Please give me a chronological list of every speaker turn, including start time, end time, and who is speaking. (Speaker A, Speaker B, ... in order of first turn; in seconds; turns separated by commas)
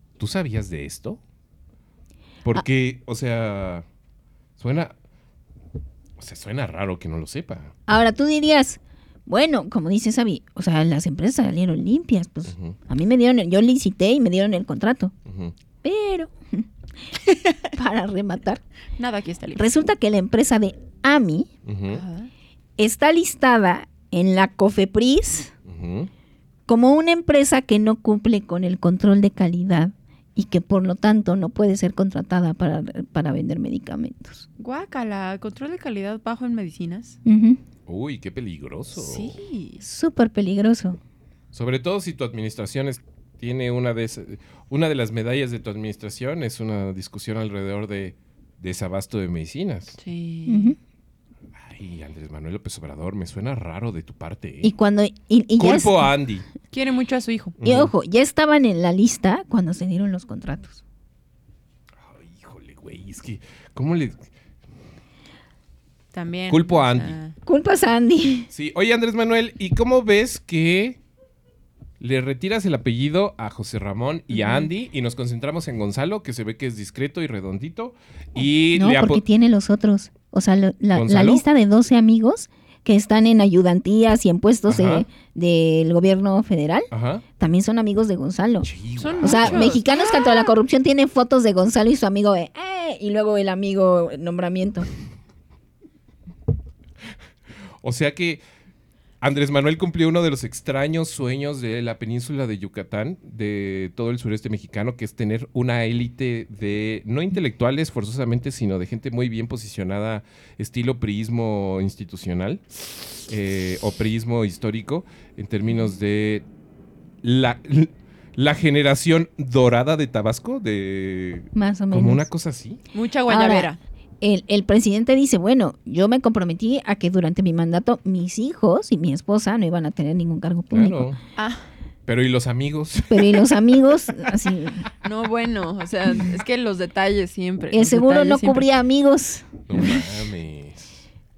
Speaker A: 0.2-1.2, Speaker A: 2.4-3.9, Speaker A: 4.6-4.9, Speaker A: 6.2-7.7, Speaker B: 7.9-15.1, Speaker A: 12.5-12.8, Speaker A: 15.3-15.5, Speaker B: 15.8-16.7, Speaker B: 17.7-18.6, Speaker C: 19.0-19.6, Speaker B: 19.6-21.5, Speaker A: 21.6-22.0, Speaker C: 21.9-22.3, Speaker B: 22.8-25.5, Speaker A: 25.6-26.1, Speaker B: 26.7-34.5, Speaker C: 34.6-37.2, Speaker B: 37.3-37.6, Speaker A: 37.9-39.4, Speaker C: 39.0-39.8, Speaker B: 39.8-41.0, Speaker A: 41.5-50.0, Speaker C: 50.0-50.8, Speaker B: 50.5-50.8, Speaker A: 51.6-54.7, Speaker B: 54.6-56.1, Speaker A: 55.6-56.5, Speaker C: 56.7-57.6, Speaker A: 57.6-57.9, Speaker B: 57.6-60.8, Speaker A: 62.0-64.2, Speaker C: 66.1-67.4, Speaker A: 66.5-67.2, Speaker B: 67.5-68.5, Speaker A: 68.5-71.0, Speaker A: 72.0-79.2, Speaker C: 74.3-74.7, Speaker B: 78.8-88.7, Speaker A: 80.9-81.4, Speaker A: 84.7-85.1, Speaker A: 86.9-87.2, Speaker A: 88.6-89.8, Speaker C: 89.0-90.5, Speaker B: 89.2-94.9, Speaker A: 97.8-98.4, Speaker A: 99.2-112.6, Speaker A: 113.3-116.5, Speaker A: 117.2-122.8, Speaker B: 121.5-122.2, Speaker C: 122.9-123.8, Speaker B: 123.3-123.7, Speaker B: 124.2-131.1, Speaker A: 130.7-131.2, Speaker C: 131.4-131.7, Speaker A: 132.1-133.6, Speaker B: 133.1-134.9, Speaker C: 135.0-138.7, Speaker B: 137.7-139.5, Speaker A: 139.7-140.9